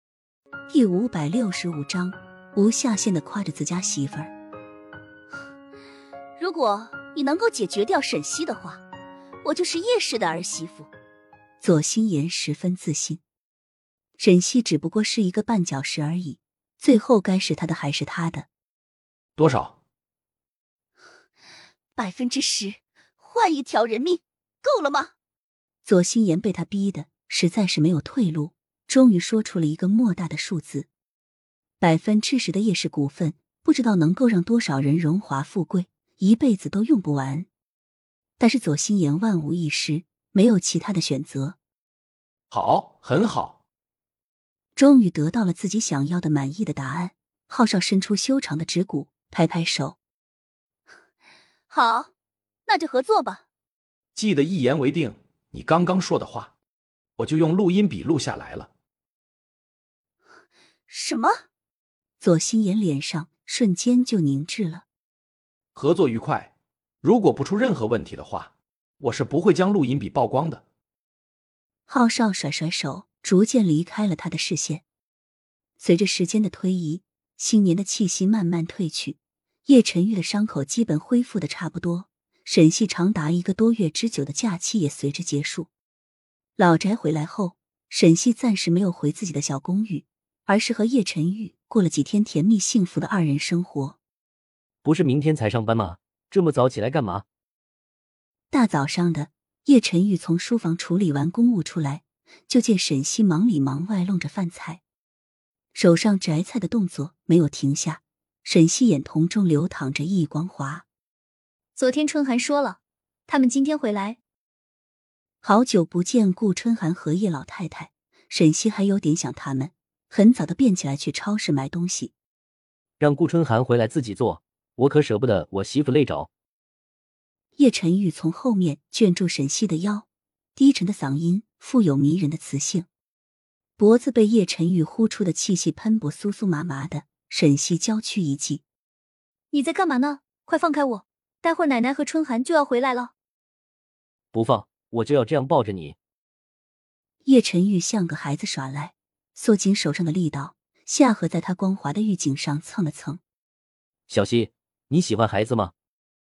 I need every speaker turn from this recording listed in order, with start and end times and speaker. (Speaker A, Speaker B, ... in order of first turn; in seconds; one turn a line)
Speaker A: 0.7-4.3
Speaker B: 6.4-8.8
Speaker B: 9.4-10.9
Speaker A: 11.6-13.2
Speaker A: 14.2-18.5
Speaker C: 19.4-19.8
Speaker B: 22.0-25.1
Speaker A: 25.9-30.9
Speaker A: 31.8-37.5
Speaker A: 38.4-41.6
Speaker C: 42.5-43.6
Speaker A: 44.8-50.0
Speaker B: 51.7-52.1
Speaker B: 52.7-53.4
Speaker C: 54.1-56.5
Speaker C: 57.2-58.7
Speaker B: 60.9-61.4
Speaker A: 62.2-64.8
Speaker C: 65.8-66.5
Speaker C: 67.0-70.6
Speaker A: 71.9-74.8
Speaker A: 75.8-85.7
Speaker A: 86.6-94.0
Speaker D: 94.8-97.2
Speaker A: 98.5-104.8
Speaker A: 105.7-110.9
Speaker E: 111.8-114.2
Speaker A: 115.4-122.1
Speaker D: 123.0-126.3
Speaker A: 127.6-132.9
Speaker A: 133.8-138.6
Speaker E: 139.5-143.1
Speaker D: 144.3-146.0
Speaker A: 147.2-153.2
Speaker D: 154.1-155.7